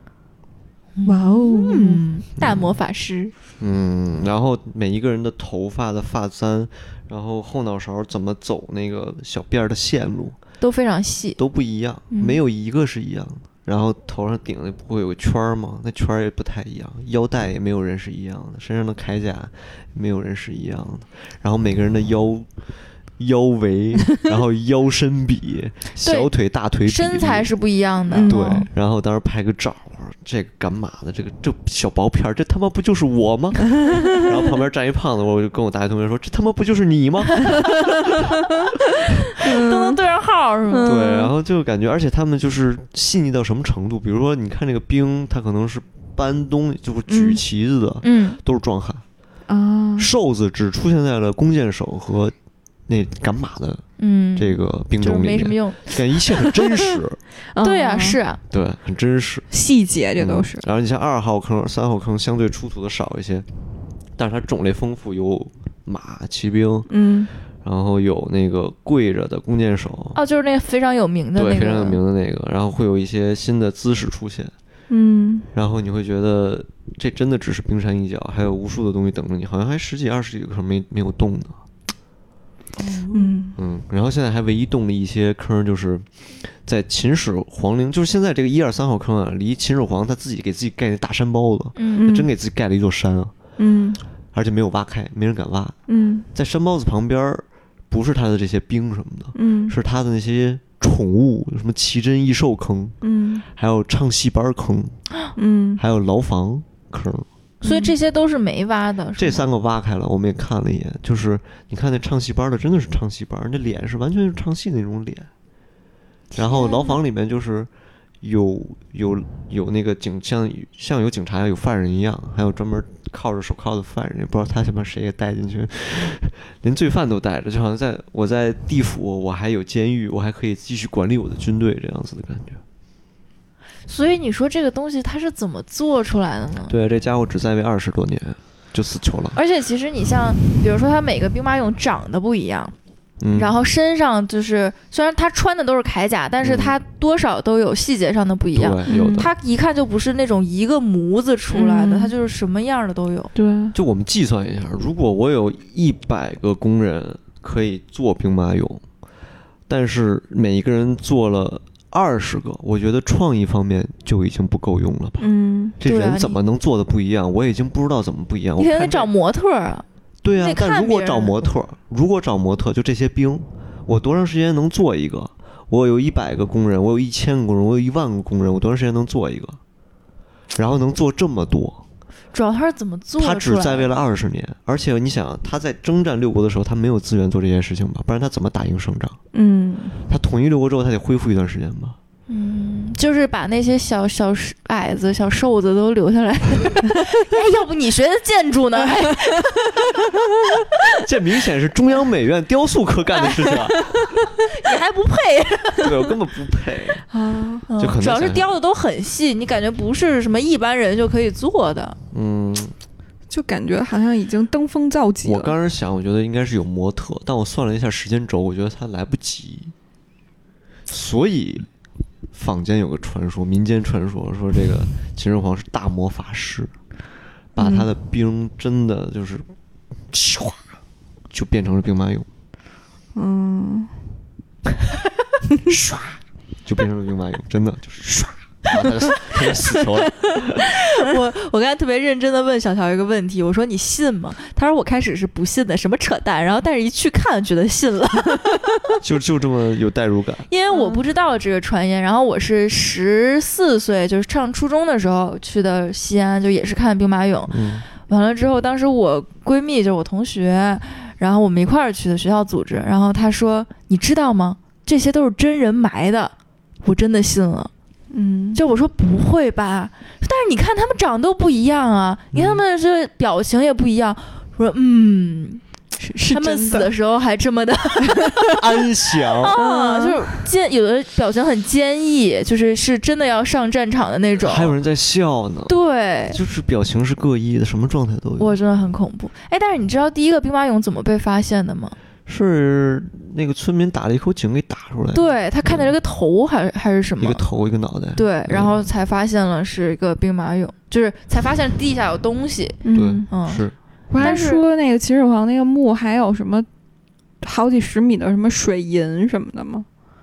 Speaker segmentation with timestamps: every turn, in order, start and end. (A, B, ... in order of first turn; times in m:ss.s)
0:01.0-0:03.3 A
0:01.0-0:02.0 B
0:02.4-0:02.7 C
0:03.6-0:10.4 C
0:10.6-0:11.4 A
0:11.4-0:22.5 C
0:12.1-0:12.4 A
0:23.2-0:27.5 C
0:26.0-0:26.3 A
0:26.8-0:28.7 A
0:28.1-0:28.7 B
0:28.3-0:37.9 C
0:33.8-0:34.0 B
0:34.1-0:34.5 A
0:38.1-0:38.7 A
0:39.3-0:40.9 A
0:39.4-0:40.0 B
0:40.7-0:41.3 B
0:40.8-0:49.0 C
0:47.1-0:47.4 B
0:48.0-0:48.4 A
0:49.5-0:50.1 B
0:50.0-0:52.3 C
0:52.9-0:53.8 C
0:54.0-0:56.6 A
0:54.4-0:57.2 C
0:57.5-0:58.2 B
0:57.6-0:58.4 A
0:58.5-0:59.5 C
0:59.5-1:00.7 B
1:00.2-1:03.5 C
1:04.2-1:06.9 C
1:06.9-1:07.3 B
1:07.6-1:10.2 C
1:10.1-1:12.0 A
1:11.4-1:14.5 C
1:14.9-1:15.5 B
1:15.5-1:21.6 C
1:22.8-1:23.3 A
1:23.1-1:23.6 B
1:23.6-1:33.3 C
1:31.8-1:32.0 A
1:32.0-1:32.3 B
1:33.6-1:34.0 B
1:34.3-1:35.8 C
1:35.9-1:36.3 B
1:36.3-1:43.0 C
1:39.3-1:39.8 B
1:43.0-1:43.4 B
1:43.5-1:45.0 C
1:45.4-1:45.8 B
1:45.8-1:47.3 C
1:47.6-1:49.4 A
1:47.6-1:48.0 B
1:49.2-1:55.3 C
1:56.3-1:57.0 A
1:56.3-1:57.7 C
1:58.2-2:12.6 C
2:13.9-2:16.8 A
2:16.7-2:19.4 C
2:19.3-2:22.8 A
2:23.2-2:23.5 C
2:23.3-2:33.3 A
2:26.4-2:26.8 C
2:28.5-2:29.3 C
2:28.9-2:29.3 B
2:31.5-2:32.1 B
2:33.3-2:33.7 B
2:33.7-2:38.8 C
2:39.7-2:49.1 C
2:45.2-2:45.8 B
2:45.8-2:46.4 A
2:48.6-2:49.8 A
2:50.2-2:59.6 C
2:50.4-2:51.4 A
3:00.5-3:01.8 C
3:02.3-3:03.9 A
3:03.2-3:09.2 C
3:09.3-3:10.0 B
3:10.1-3:12.0 C
3:12.3-3:20.0 A
3:21.0-3:23.8 C
3:23.5-3:26.1 A
3:25.8-3:27.0 C
3:27.1-3:27.7 B
3:27.7-3:32.0 A
3:27.8-3:28.5 C
3:32.1-3:32.7 C
3:33.3-3:35.6 B
3:35.2-3:39.7 C
3:40.9-3:41.7 C
3:42.3-3:46.7 C
3:47.6-3:49.4 C
3:47.6-3:47.9 B
3:50.1-3:50.6 C
3:51.3-3:52.3 C
3:53.1-3:54.0 B
3:55.8-3:56.1 A
3:56.6-4:00.7 C
4:00.4-4:08.8 A
4:09.0-4:10.5 C
4:10.5-4:27.7 A
4:10.7-4:11.0 B
4:17.5-4:17.9 C
4:28.1-4:28.6 B
4:28.5-4:35.6 A
4:32.3-4:32.6 C
4:36.0-4:36.9 B
4:36.2-4:38.6 A
4:38.6-4:39.6 C
4:39.4-4:44.7 A
4:39.5-4:40.4 B
4:44.4-4:45.7 C
4:45.7-4:46.4 A
4:46.3-4:48.5 C
4:48.4-4:52.0 A
4:52.3-4:55.9 C
4:55.1-4:57.4 A
4:57.2-4:58.8 C
4:58.2-5:03.6 A
5:02.8-5:03.3 B
5:02.9-5:04.3 C
5:04.1-5:06.7 B
5:04.2-5:04.6 A
5:07.4-5:09.8 B